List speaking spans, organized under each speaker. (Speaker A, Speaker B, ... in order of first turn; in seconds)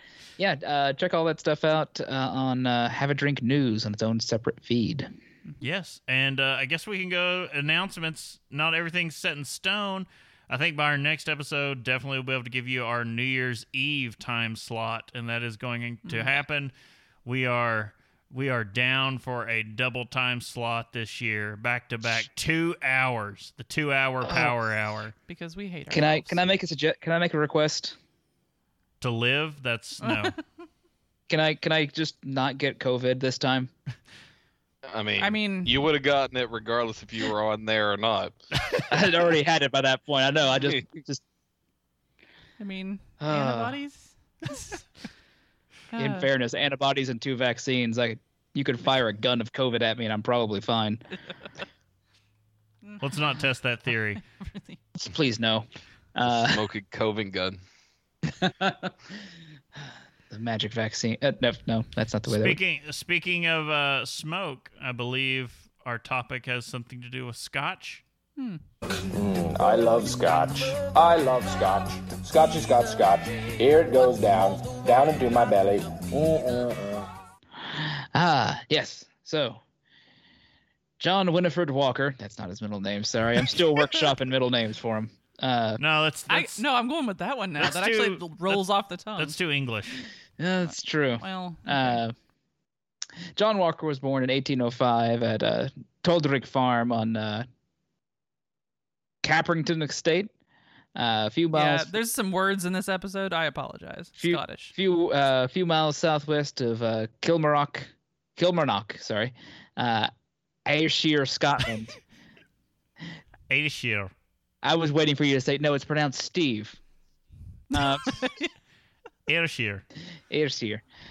Speaker A: 0.4-5.1, 24.2-24.6, 25.9-28.0, 31.3-33.7, 38.9-41.2, 43.2-43.8, 46.0-51.0, 55.0-56.7, 58.3-58.9, 60.3-62.6, 77.6-79.6, 81.0-85.8, 90.4-92.2, 93.3-97.5, 99.2-100.3, 101.0-102.0, 104.2-110.1, 110.7-112.0, 114.6-116.8, 117.7-118.2, 120.3-120.8
Speaker B: 5.6-16.7, 17.2-25.1, 29.0-30.4, 53.0-54.2, 62.3-68.0, 85.8-86.6, 87.6-88.6, 89.2-90.0, 113.5-114.1, 119.3-119.8
Speaker C: 16.1-16.4, 25.3-26.4, 30.0-30.4, 35.2-35.8, 42.6-44.8, 45.9-46.3, 52.8-53.4, 54.2-54.8, 68.4-68.6, 86.3-89.3, 91.2-92.0, 101.5-104.7, 118.1-118.5
Speaker D: 34.8-38.4, 56.3-57.6
Speaker E: 69.0-77.0